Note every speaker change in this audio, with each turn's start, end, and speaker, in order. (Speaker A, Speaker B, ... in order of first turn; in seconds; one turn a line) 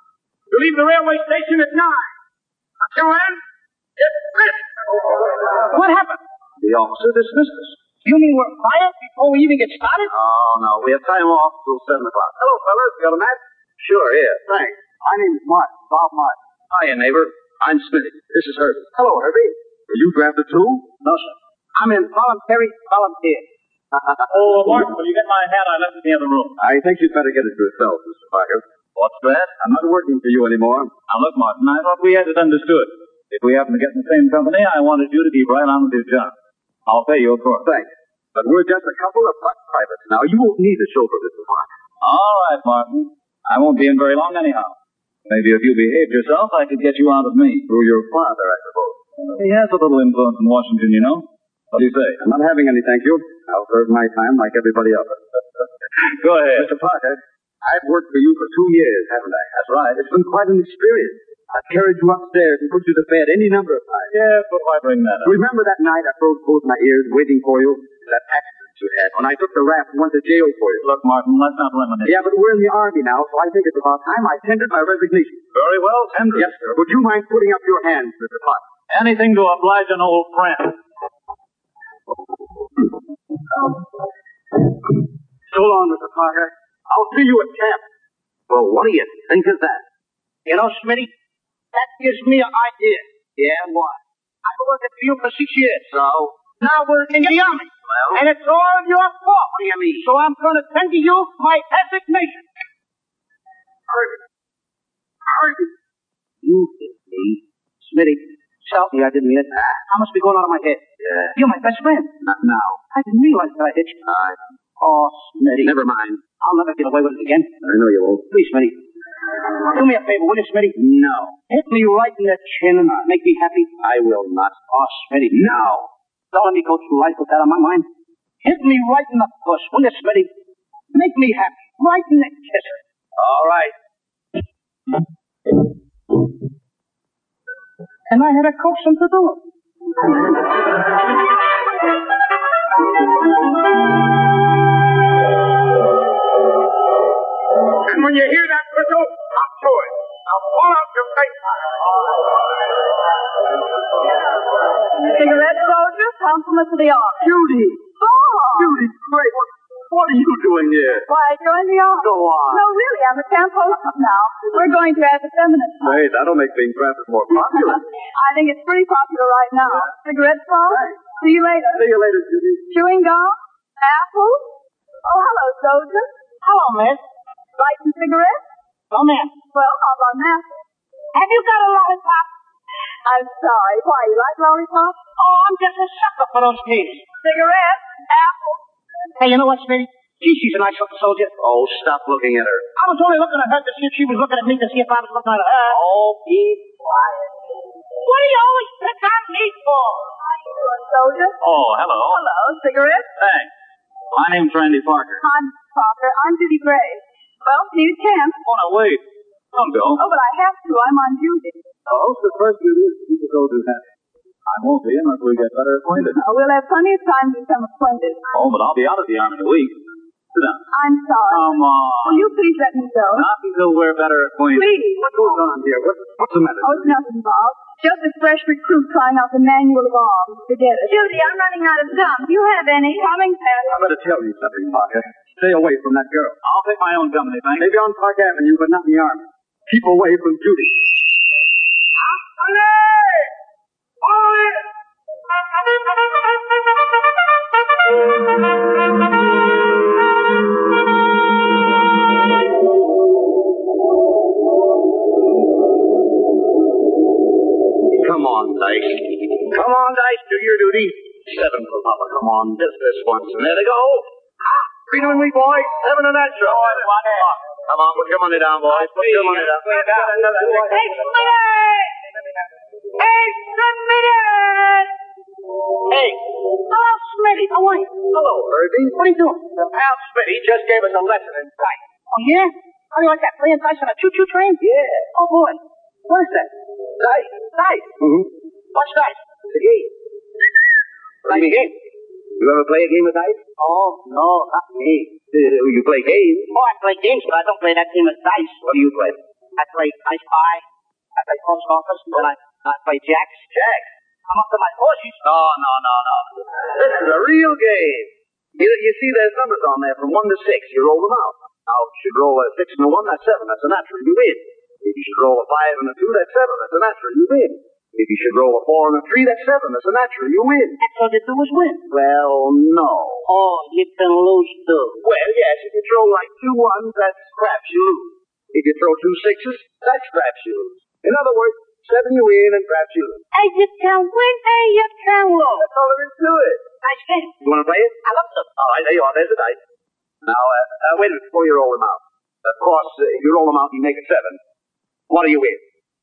Speaker A: 0.5-2.1
Speaker A: 2.9-3.4
Speaker A: 4.0-4.6
Speaker B: 5.7-6.2
Speaker C: 6.6-7.7
Speaker B: 8.0-10.1
Speaker C: 10.1-21.1
Speaker B: 21.8-23.4
Speaker C: 23.9-24.2
Speaker D: 24.3-26.6
Speaker C: 26.6-28.6
Speaker D: 28.9-29.6
Speaker C: 29.6-30.9
Speaker D: 31.1-36.3
Speaker D: 36.9-37.7
Speaker C: 37.6-41.7
Speaker D: 42.0-44.8
Speaker D: 45.3-47.7
Speaker C: 47.7-49.0
Speaker D: 49.3-52.2
Speaker C: 52.2-55.2
Speaker D: 56.1-56.7
Speaker C: 56.5-64.1
Speaker D: 59.6-60.0
Speaker D: 64.1-65.3
Speaker C: 65.2-70.8
Speaker D: 70.8-72.2
Speaker C: 72.0-75.4
Speaker D: 75.5-76.6
Speaker C: 76.3-78.6
Speaker D: 78.9-80.8
Speaker B: 85.5-86.5
Speaker C: 86.9-87.8
Speaker C: 88.5-89.8
Speaker B: 90.5-91.1
Speaker B: 91.7-93.0
Speaker C: 93.4-94.0
Speaker B: 94.4-95.9
Speaker C: 95.9-96.3
Speaker B: 96.6-102.4
Speaker C: 97.9-98.2
Speaker C: 99.6-100.0
Speaker C: 103.9-104.2
Speaker C: 105.3-105.7
Speaker C: 106.5-107.2
Speaker B: 107.9-112.1
Speaker C: 111.0-111.3
Speaker C: 112.2-112.8
Speaker B: 112.9-114.0
Speaker C: 114.0-114.4
Speaker B: 114.8-115.8
Speaker C: 115.6-116.2
Speaker B: 116.4-117.5
Speaker C: 117.6-118.2
Speaker B: 118.3-118.8
Speaker B: 119.6-120.7
Speaker C: 120.7-121.3
Speaker B: 121.5-123.7
Speaker C: 123.8-124.6
Speaker B: 124.7-125.4
Speaker C: 125.3-125.9
Speaker B: 126.3-127.9
Speaker B: 128.4-130.3
Speaker B: 130.9-132.8
Speaker C: 133.2-133.7
Speaker B: 138.1-139.4
Speaker A: 147.9-149.7
Speaker E: 155.0-157.3
Speaker C: 157.2-157.8
Speaker E: 158.0-158.8
Speaker C: 158.5-161.1
Speaker E: 161.1-166.1
Speaker C: 162.0-162.6
Speaker C: 165.8-167.8
Speaker E: 167.3-171.9
Speaker C: 170.7-170.9
Speaker C: 171.7-172.6
Speaker E: 172.7-174.5
Speaker E: 175.0-176.1
Speaker B: 176.4-177.0
Speaker E: 177.6-178.4
Speaker B: 178.9-179.3
Speaker E: 179.5-180.6
Speaker B: 181.1-182.3
Speaker E: 183.0-185.0
Speaker B: 185.2-187.2
Speaker E: 187.2-188.5
Speaker B: 189.2-191.3
Speaker C: 191.4-192.6
Speaker B: 192.8-195.8
Speaker B: 198.0-200.1
Speaker E: 200.4-201.4
Speaker D: 201.4-202.2
Speaker E: 202.0-203.1
Speaker D: 203.2-203.5
Speaker D: 204.1-205.2
Speaker E: 205.2-208.4
Speaker D: 208.4-209.0
Speaker D: 209.5-210.0
Speaker E: 209.9-211.6
Speaker C: 211.9-213.8
Speaker D: 214.5-216.2
Speaker E: 216.1-218.3
Speaker D: 218.3-219.8
Speaker D: 220.3-220.6
Speaker E: 220.7-223.3
Speaker D: 221.3-222.3
Speaker D: 223.1-224.8
Speaker E: 224.5-225.2
Speaker C: 225.0-226.9
Speaker E: 226.6-233.8
Speaker C: 233.7-236.4
Speaker D: 236.4-237.7
Speaker C: 237.6-240.8
Speaker C: 258.0-264.1
Speaker C: 264.9-266.9
Speaker D: 266.4-267.4
Speaker C: 267.6-270.7
Speaker D: 268.7-270.2
Speaker B: 269.7-270.0
Speaker B: 270.5-271.9
Speaker B: 273.0-274.9
Speaker B: 275.9-278.0
Speaker C: 278.1-279.0
Speaker B: 278.9-279.5
Speaker C: 279.7-281.7
Speaker B: 282.1-284.6
Speaker C: 284.6-285.1
Speaker B: 285.1-286.5
Speaker C: 287.0-287.3
Speaker B: 287.5-287.9
Speaker C: 288.0-288.3
Speaker B: 288.7-289.2
Speaker C: 289.5-289.9
Speaker B: 291.2-291.7
Speaker C: 291.3-291.5
Speaker C: 292.4-293.4
Speaker B: 293.6-295.1
Speaker C: 295.3-296.5
Speaker B: 296.5-298.8
Speaker C: 298.6-299.1
Speaker B: 299.6-300.6
Speaker B: 301.1-303.4
Speaker C: 303.5-303.9
Speaker B: 304.3-305.2
Speaker C: 305.2-320.8
Speaker B: 320.8-321.8
Speaker C: 321.9-323.2
Speaker B: 323.2-325.0
Speaker C: 325.0-333.2
Speaker B: 333.3-335.6
Speaker C: 335.6-336.6
Speaker B: 336.8-337.4
Speaker C: 337.4-337.9
Speaker B: 338.0-338.5
Speaker C: 338.6-339.6
Speaker C: 340.2-344.4
Speaker C: 345.1-345.6